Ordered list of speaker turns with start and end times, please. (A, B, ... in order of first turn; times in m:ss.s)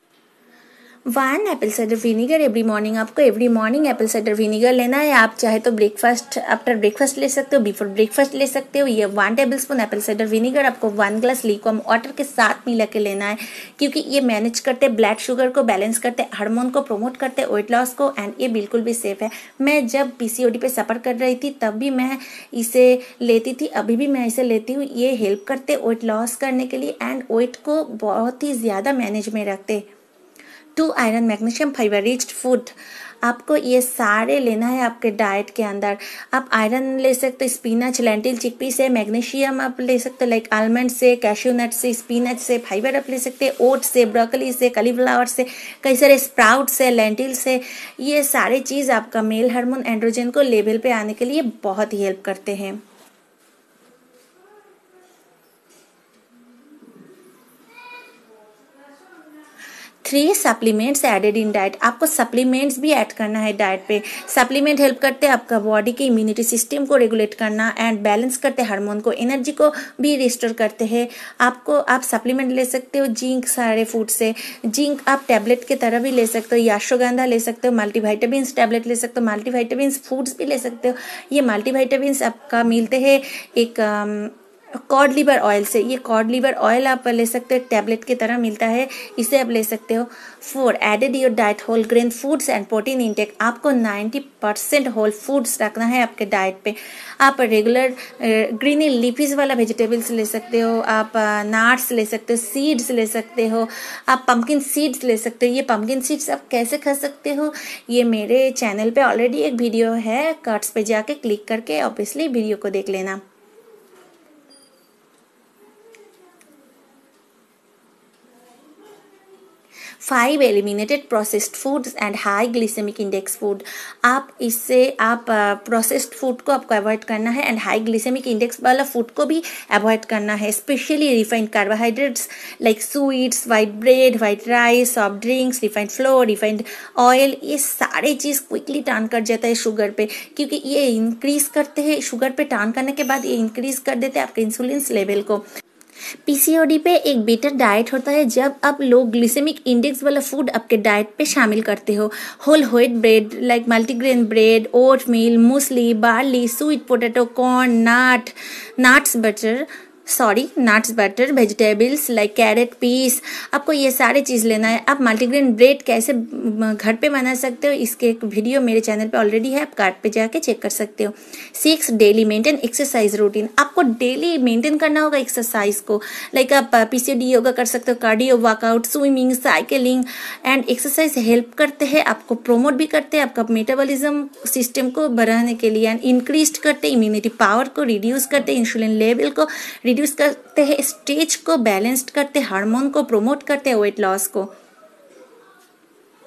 0:01.1-0:29.8 A
0:30.7-0:52.8 A
1:00.0-1:24.3 A
1:24.8-1:53.2 A
2:00.0-2:25.4 A
2:26.2-3:14.5 A